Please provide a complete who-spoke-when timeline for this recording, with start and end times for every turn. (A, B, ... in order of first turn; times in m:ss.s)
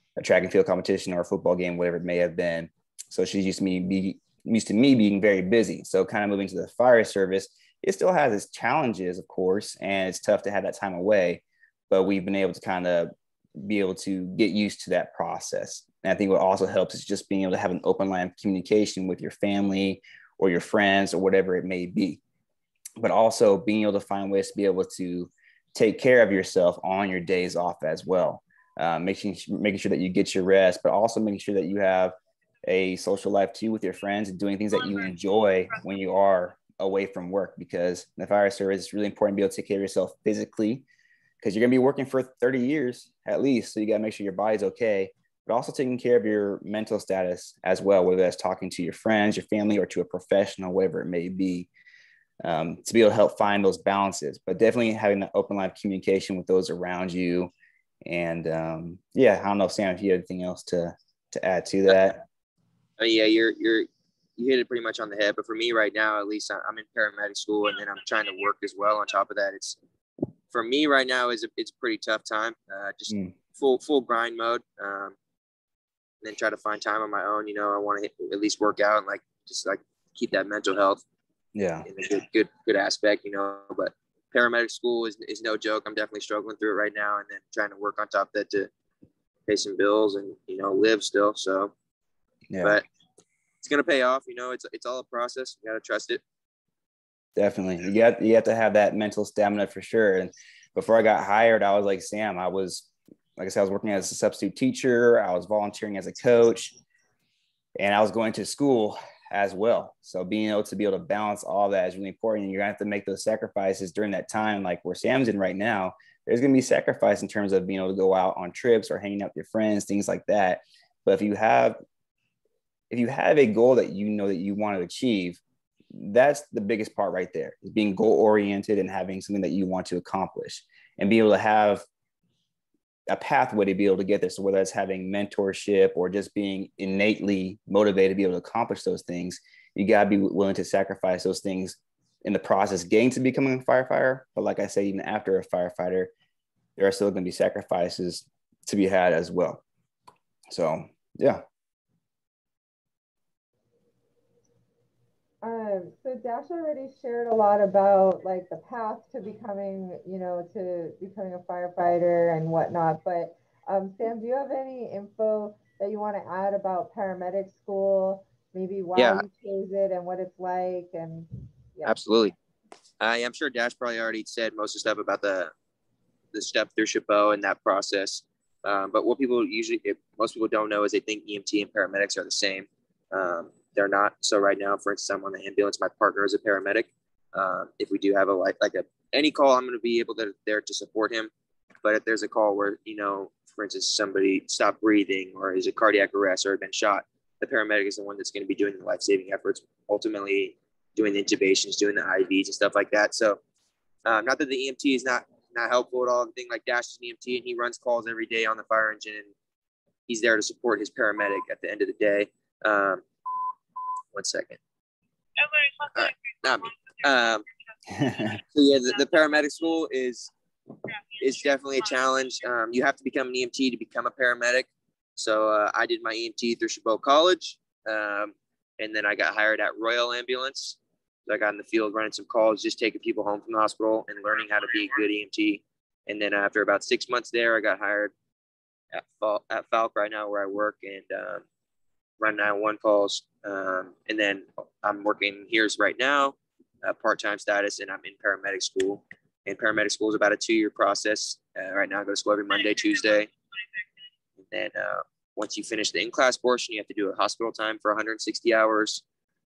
0:00.2-0:22.2 A
0:23.0-0:40.8 A
0:41.4-0:51.7 A
0:52.4-0:57.5 A
0:58.1-1:02.2 A
1:03.0-1:09.8 B
1:10.5-1:15.2 B
1:13.1-1:13.4 A
1:16.2-1:21.0 B
1:21.6-1:21.9 A
1:21.8-1:28.7 B
1:29.5-1:31.7 B
1:32.5-1:32.8 A
1:33.6-1:36.2 B
1:37.4-1:46.8 A
1:47.8-2:01.8 A
2:02.9-2:05.4 A
2:05.9-2:11.9 A
2:13.1-2:26.1 A
2:26.8-2:29.6 A
2:30.5-2:31.4 A
2:35.4-2:51.9 C
2:49.0-2:49.2 B
2:51.8-2:52.4 B
2:53.0-2:55.5 B
2:56.3-3:11.3 B
3:11.8-3:23.4 B
3:24.0-3:29.3 B
3:30.1-3:33.0 B
3:34.1-3:34.6 B
3:35.9-3:37.5 B
3:37.9-3:38.4 A
3:38.5-3:40.3 B
3:41.2-3:58.1 B
3:58.9-4:01.4 B
4:02.2-4:13.3 B
4:14.4-4:19.0 B